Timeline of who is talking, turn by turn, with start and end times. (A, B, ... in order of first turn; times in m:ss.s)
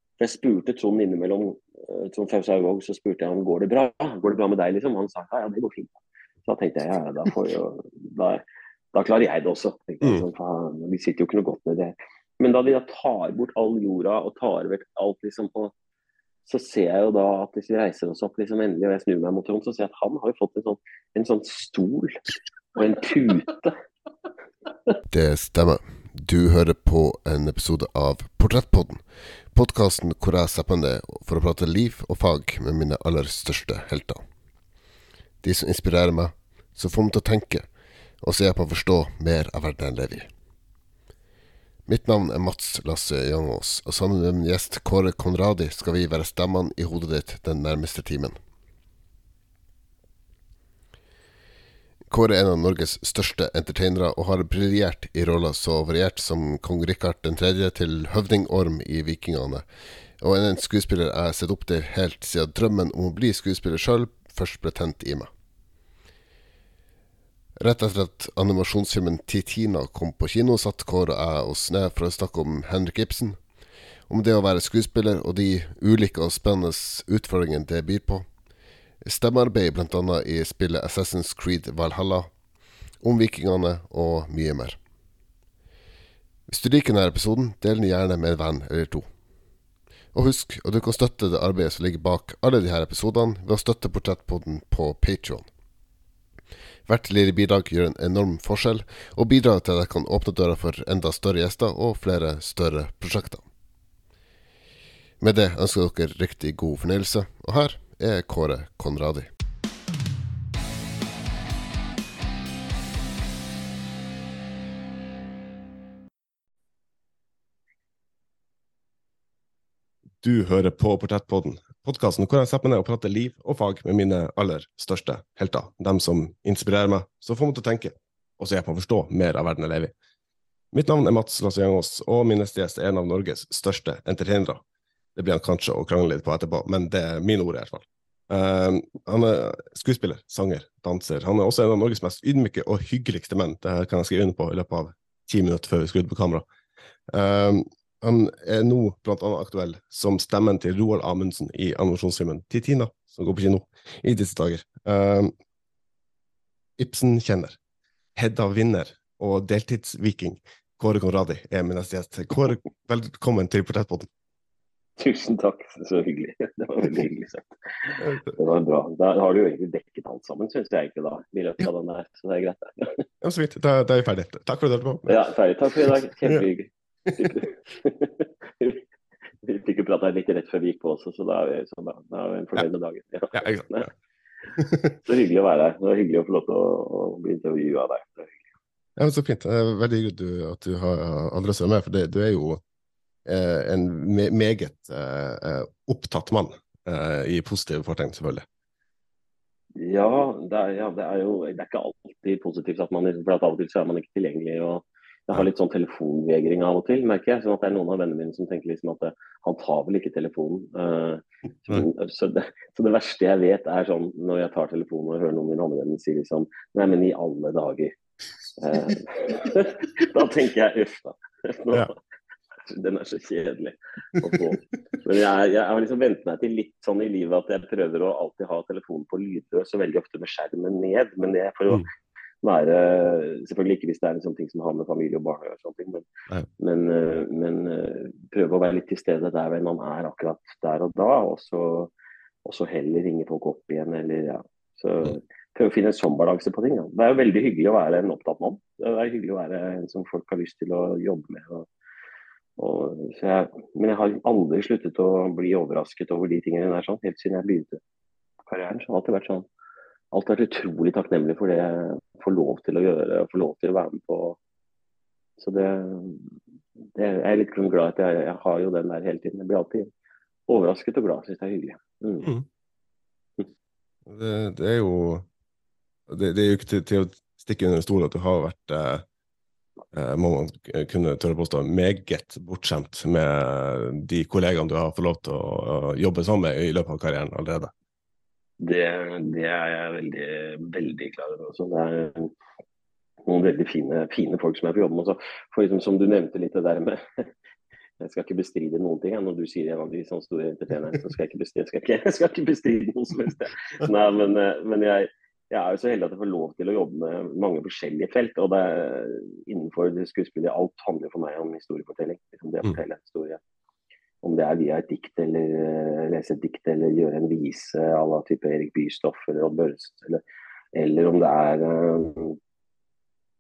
0:00.2-0:08.4 A
0:08.9-0:15.7 A
0:16.4-0:22.2 A
0:22.8-0:23.8 A
0:25.1-0:34.2 B
0:35.4-0:37.7 B
0:38.2-0:40.3 B
0:41.9-0:48.4 B
0:52.1-0:59.7 B
1:00.2-1:05.3 B
1:07.6-1:13.4 B
1:14.1-1:18.3 B
1:19.0-1:22.3 B
1:23.0-1:24.8 B
1:26.5-1:29.1 B
1:30.1-1:35.5 B
1:36.9-1:43.4 B
1:45.2-1:49.3 B
2:00.2-2:09.9 C
2:10.7-2:14.6 C
2:15.2-2:26.5 C
2:27.1-2:35.3 C
2:36.8-2:37.6 C
2:38.2-2:44.1 C
2:45.0-2:53.0 A
2:48.0-2:48.4 C
2:53.2-2:55.2 C
2:55.1-2:58.8 A
2:55.9-2:56.4 C
2:59.4-3:03.9 A
3:03.3-3:03.9 C
3:04.6-3:04.9 C
3:05.0-3:08.4 A
3:09.0-3:12.6 C
3:13.3-3:18.4 C
3:19.8-3:38.0 A
3:38.6-3:42.0 A
3:42.6-3:51.8 A
3:52.4-3:56.0 A
3:56.6-4:01.9 A
4:02.4-4:11.7 A
4:12.6-4:17.8 A
4:18.5-4:19.5 A
4:20.1-4:24.4 A
4:25.4-4:26.2 A
4:27.0-4:29.9 A
4:30.5-4:32.3 A
4:34.1-4:35.3 C
4:36.1-4:39.0 C
4:39.9-4:47.7 C
4:48.6-4:52.3 A
4:53.3-4:57.3 A
4:58.0-5:13.4 A
5:14.2-5:20.2 A
5:20.8-5:22.4 A